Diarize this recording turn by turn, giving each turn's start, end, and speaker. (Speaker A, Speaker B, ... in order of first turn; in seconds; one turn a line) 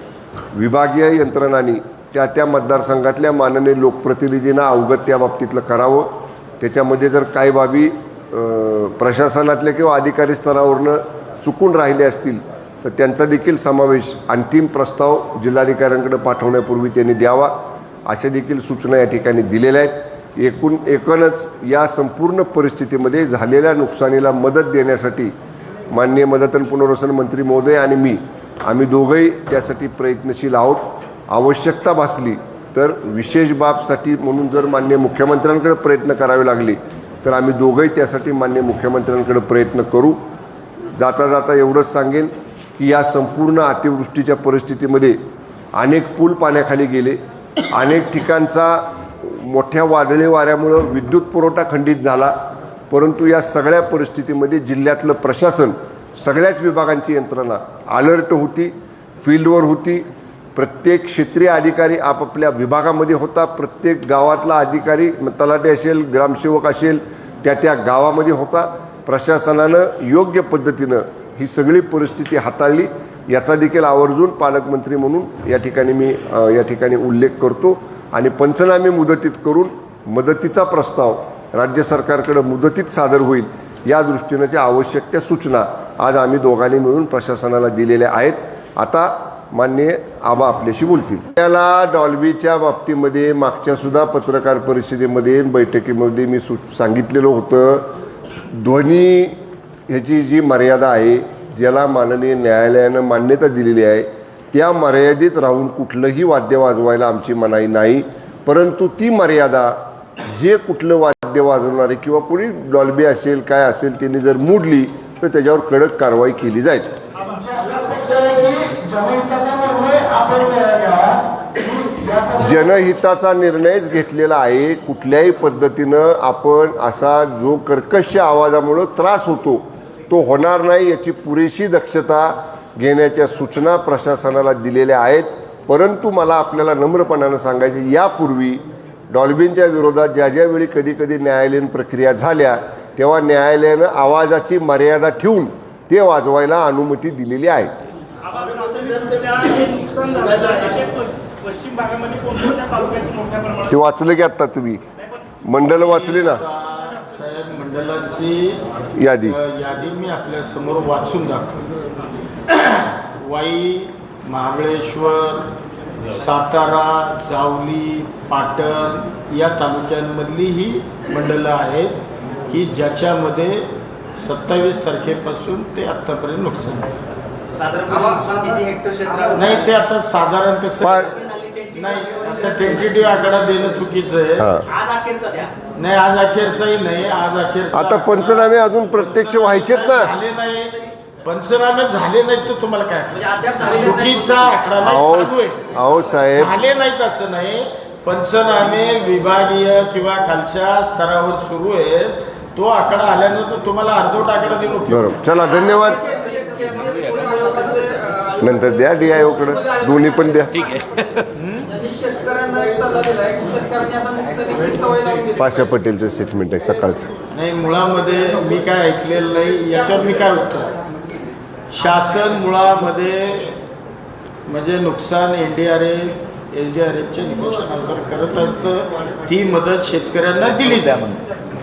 Speaker A: 0.5-6.1
Speaker A: 6.6-17.5
Speaker A: 18.1-25.3
Speaker A: 25.9-40.2
Speaker A: 41.0-45.1
Speaker A: 45.8-47.2
Speaker A: 47.7-52.3
Speaker A: 52.9-97.8
Speaker A: 98.5-99.4
Speaker A: 99.9-116.9
Speaker B: 117.3-121.2
Speaker A: 122.1-147.7
Speaker B: 148.3-150.9
Speaker B: 151.5-153.5
Speaker A: 153.5-154.8
Speaker A: 155.4-156.4
Speaker C: 155.7-158.6
Speaker A: 159.0-159.4
Speaker C: 159.2-161.7
Speaker C: 162.5-165.5
Speaker C: 166.1-171.9
Speaker C: 172.5-176.9
Speaker D: 177.7-179.2
Speaker B: 177.9-179.3
Speaker C: 179.3-181.2
Speaker A: 180.8-181.1
Speaker C: 181.7-184.6
Speaker D: 184.8-185.5
Speaker C: 185.7-195.7
Speaker A: 187.7-190.1
Speaker A: 194.8-196.5
Speaker C: 196.3-205.1
Speaker A: 204.9-206.2
Speaker B: 206.2-208.3
Speaker A: 208.4-210.7
Speaker C: 211.3-211.8
Speaker B: 211.9-215.3
Speaker A: 215.3-217.1
Speaker C: 217.3-220.7
Speaker C: 221.7-223.5
Speaker C: 224.5-231.2